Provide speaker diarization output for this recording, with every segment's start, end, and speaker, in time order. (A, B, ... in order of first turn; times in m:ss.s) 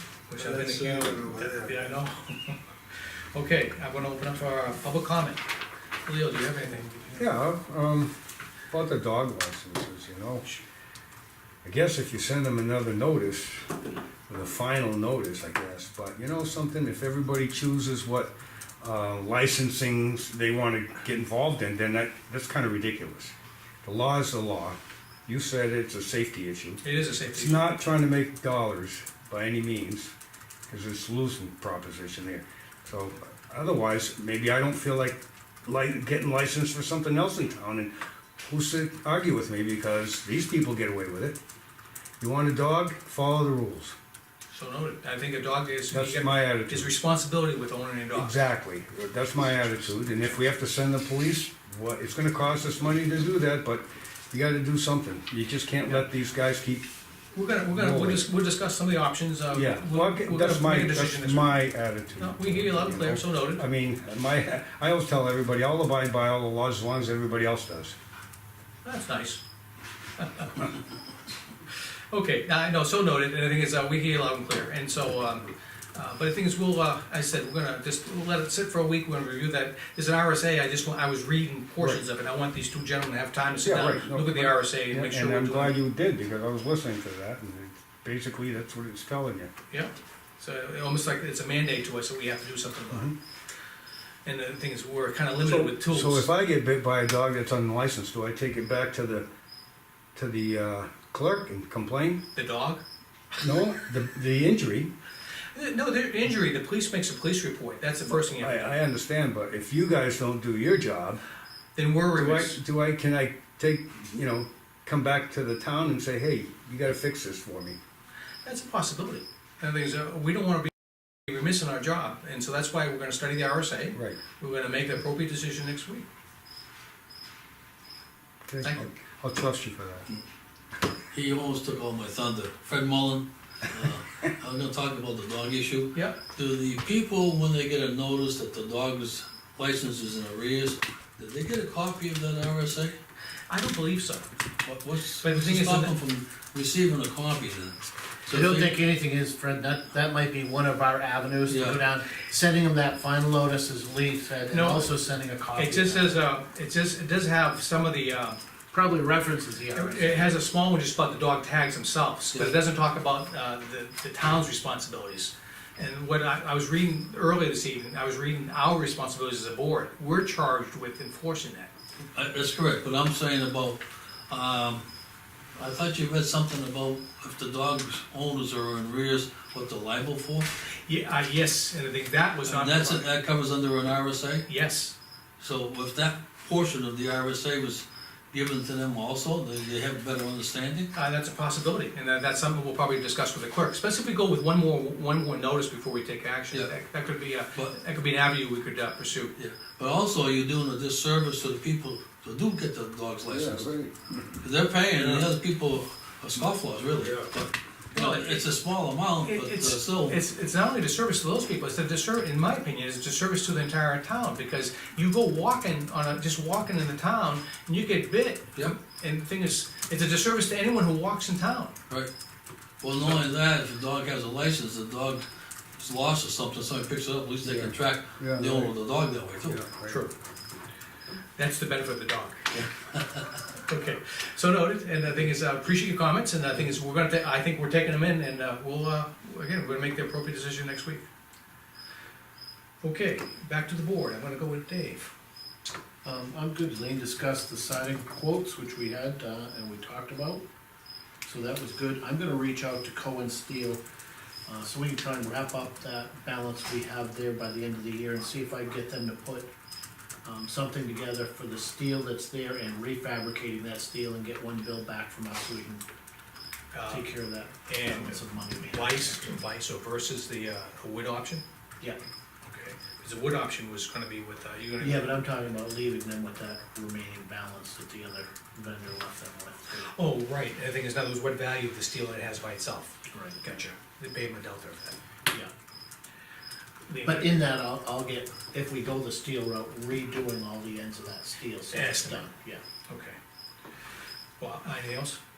0:00.3-0:02.6 A
0:00.4-0:01.3 B
0:03.3-0:05.4 A
0:06.0-0:07.4 A
0:07.1-0:08.1 C
0:08.7-0:10.6 C
0:11.6-0:13.7 C
0:14.3-0:30.1 C
0:26.8-0:27.7 A
0:30.7-0:41.4 C
0:42.2-0:44.0 C
0:44.5-0:48.4 A
0:45.9-0:46.9 C
0:48.1-0:56.9 C
0:57.3-1:01.6 A
0:57.7-0:58.2 C
0:59.5-1:07.9 C
1:02.2-1:03.6 A
1:08.8-1:09.4 A
1:10.2-1:10.5 A
1:12.1-1:25.8 A
1:23.6-1:29.5 C
1:29.7-1:33.1 A
1:34.2-1:36.3 A
1:35.4-1:39.3 C
1:40.1-1:42.2 C
1:42.3-1:42.8 A
1:43.4-1:44.9 C
1:45.5-1:48.8 A
1:48.1-1:51.2 C
1:51.8-1:52.6 A
1:52.1-1:57.8 C
1:58.4-2:06.0 A
2:03.9-2:04.2 C
2:08.4-2:10.1 C
2:08.6-2:08.9 A
2:11.1-2:23.0 B
2:15.9-2:16.2 A
2:23.5-2:24.3 A
2:24.6-2:28.8 B
2:25.2-2:25.9 A
2:28.3-2:36.2 D
2:31.5-2:31.8 B
2:34.5-2:34.9 A
2:35.5-2:38.4 A
2:38.7-2:40.4 D
2:39.7-2:51.7 A
2:52.1-2:54.8 B
2:55.6-3:00.5 B
3:00.9-3:03.0 A
3:02.4-3:04.4 B
3:04.5-3:04.9 A
3:05.4-3:10.9 B
3:10.9-3:19.3 A
3:19.4-3:23.7 B
3:23.3-3:24.2 C
3:24.4-3:30.2 B
3:27.9-3:28.5 A
3:29.2-3:41.8 A
3:42.8-3:45.2 B
3:45.8-3:49.6 B
3:47.4-3:48.7 C
3:49.4-3:50.0 C
3:49.9-3:50.1 A
3:51.4-3:52.6 A
3:53.7-4:01.0 A
4:02.8-4:05.1 A
4:06.0-4:10.4 D
4:11.2-4:13.8 D
4:14.4-4:19.5 D
4:20.2-4:25.8 D
4:26.7-4:27.1 A
4:26.9-4:29.2 D
4:27.6-4:31.4 A
4:32.4-4:35.1 A
4:34.8-4:39.9 D
4:39.8-4:45.0 A
4:43.1-4:43.5 D
4:46.9-4:47.4 A
4:47.0-4:52.6 D
4:51.7-4:52.3 A
4:52.9-4:53.2 A
4:54.4-4:55.2 A